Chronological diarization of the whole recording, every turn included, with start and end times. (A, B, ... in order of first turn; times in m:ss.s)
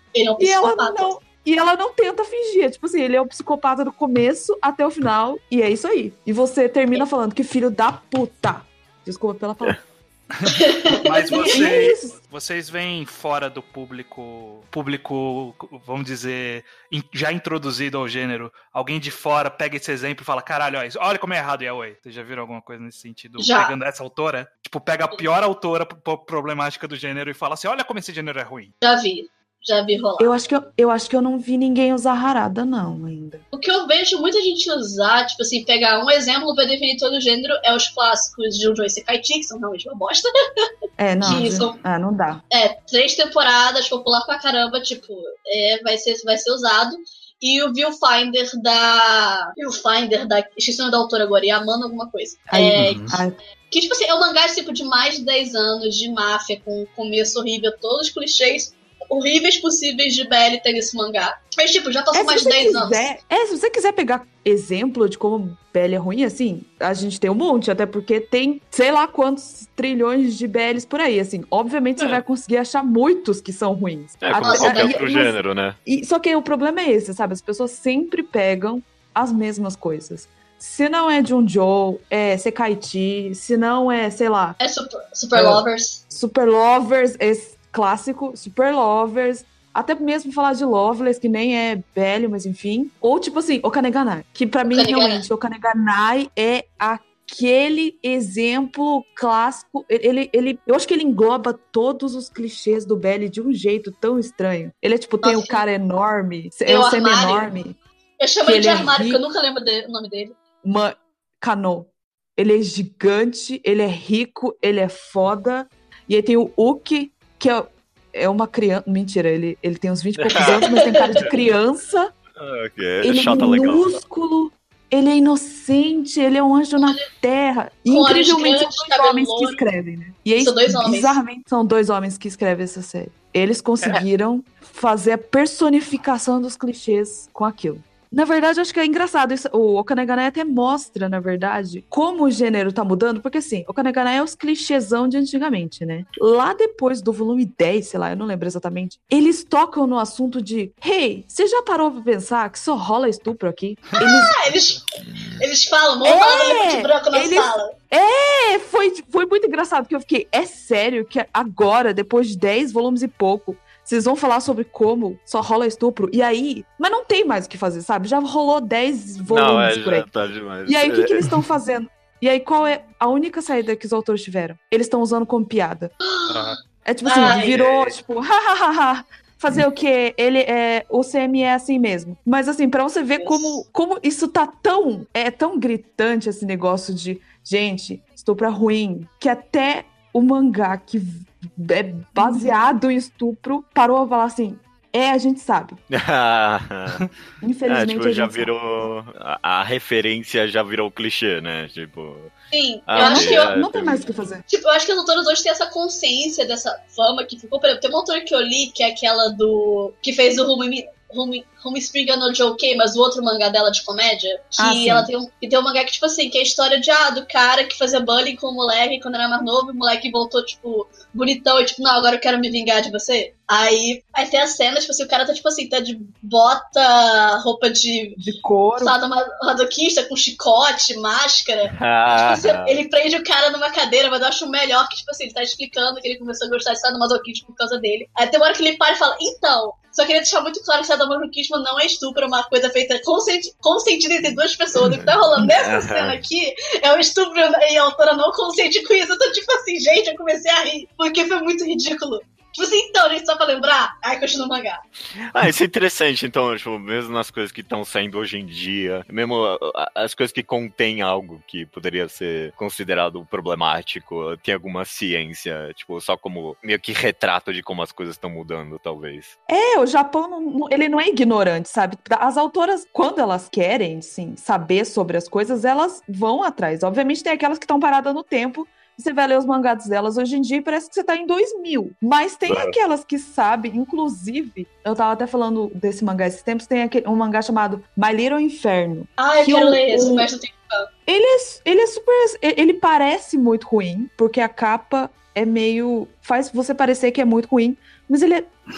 0:00.1-0:01.1 A
0:00.4-0:09.8 B
0:10.4-0:28.7 C
0:10.5-0:11.5 A
0:11.3-0:12.2 B
0:23.4-0:23.7 A
0:28.8-0:30.3 A
0:30.2-0:33.4 B
0:33.5-0:40.7 A
0:41.0-0:42.4 B
0:41.2-0:41.7 C
0:41.2-0:41.8 A
0:42.5-0:53.1 A
0:52.5-0:53.4 B
0:52.8-0:53.2 C
0:53.7-1:03.1 A
1:02.1-1:15.3 B
1:14.2-1:15.8 D
1:14.4-1:15.0 A
1:15.8-1:24.6 B
1:24.6-1:26.0 A
1:25.3-1:47.8 B
1:34.6-1:35.2 A
1:45.2-1:45.6 A
1:46.7-1:47.4 A
1:48.2-1:50.4 A
1:48.4-1:49.2 B
1:50.6-2:02.1 B
2:00.2-2:00.5 D
2:00.4-2:01.3 A
2:02.4-2:04.0 D
2:03.0-2:34.4 B
2:06.8-2:07.1 A
2:07.9-2:09.6 A
2:10.4-2:11.2 A
2:33.9-2:34.8 C
2:34.0-2:34.8 A
2:35.4-2:37.7 A
2:36.0-2:50.1 B
2:49.2-2:51.2 D
2:50.6-2:55.9 B
2:56.0-2:57.5 A
2:56.3-2:56.6 C
2:56.8-3:15.8 B
2:57.3-2:57.7 C
3:03.2-3:03.6 A
3:15.9-3:17.0 D
3:17.4-3:18.5 B
3:17.7-3:22.3 D
3:22.5-3:23.5 A
3:22.9-3:24.0 D
3:23.0-3:24.4 B
3:24.5-3:48.2 A
3:34.6-3:35.1 B
3:48.2-3:49.0 B
3:48.8-4:14.8 A
3:51.8-3:52.8 D
4:05.6-4:06.2 D
4:15.3-4:29.3 D
4:29.5-4:50.3 B
4:42.5-4:42.8 D
4:49.2-4:50.9 A
4:51.1-4:58.5 B